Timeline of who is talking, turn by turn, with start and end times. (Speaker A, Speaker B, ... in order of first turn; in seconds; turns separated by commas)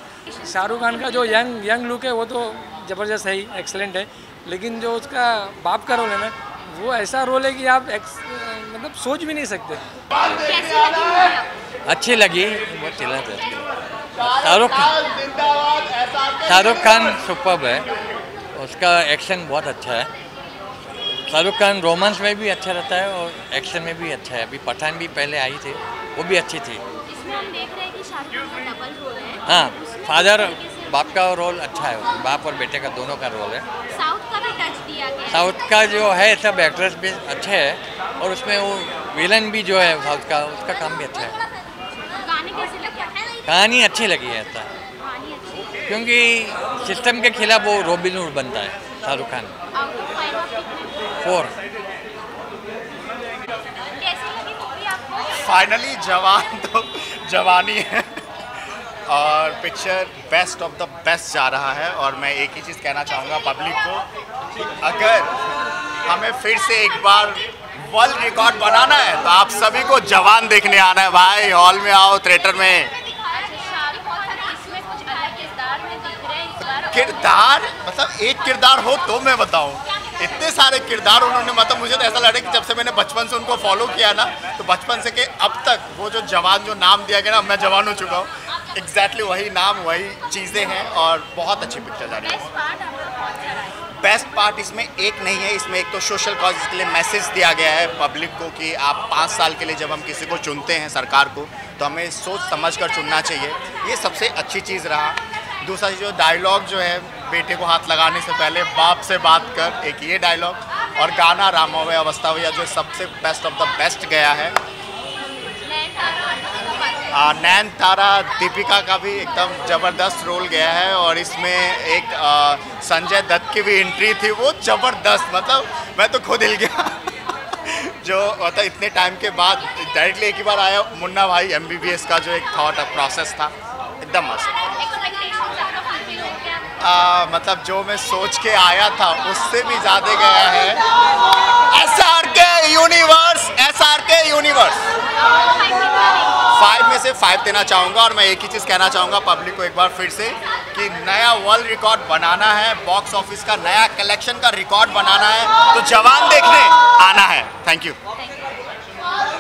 Speaker A: 0.3-1.5, Speaker B: 0.5-9.8, Speaker A: 10.2-11.5, Speaker C: 11.9-17.9, Speaker C: 18.6-20.1, Speaker C: 21.3-26.8, Speaker A: 27.1-31.2, Speaker C: 29.5-33.6, Speaker A: 33.9-35.6, Speaker C: 35.3-41.4, Speaker A: 42.2-43.4, Speaker C: 43.5-44.7, Speaker A: 45.0-45.8, Speaker C: 45.9-49.5, Speaker A: 49.7-51.2, Speaker C: 51.2-51.5, Speaker A: 53.9-55.6, Speaker D: 55.4-64.1, Speaker D: 64.8-65.3, Speaker D: 66.1-72.9, Speaker A: 73.3-77.5, Speaker D: 76.7-92.5, Speaker A: 92.2-93.9, Speaker D: 94.0-114.6, Speaker A: 115.6-117.3, Speaker D: 117.1-134.7, Speaker A: 134.8-136.7, Speaker D: 136.8-140.8, Speaker D: 141.7-144.9, Speaker A: 145.2-146.4, Speaker D: 146.5-158.0, Speaker A: 158.2-158.6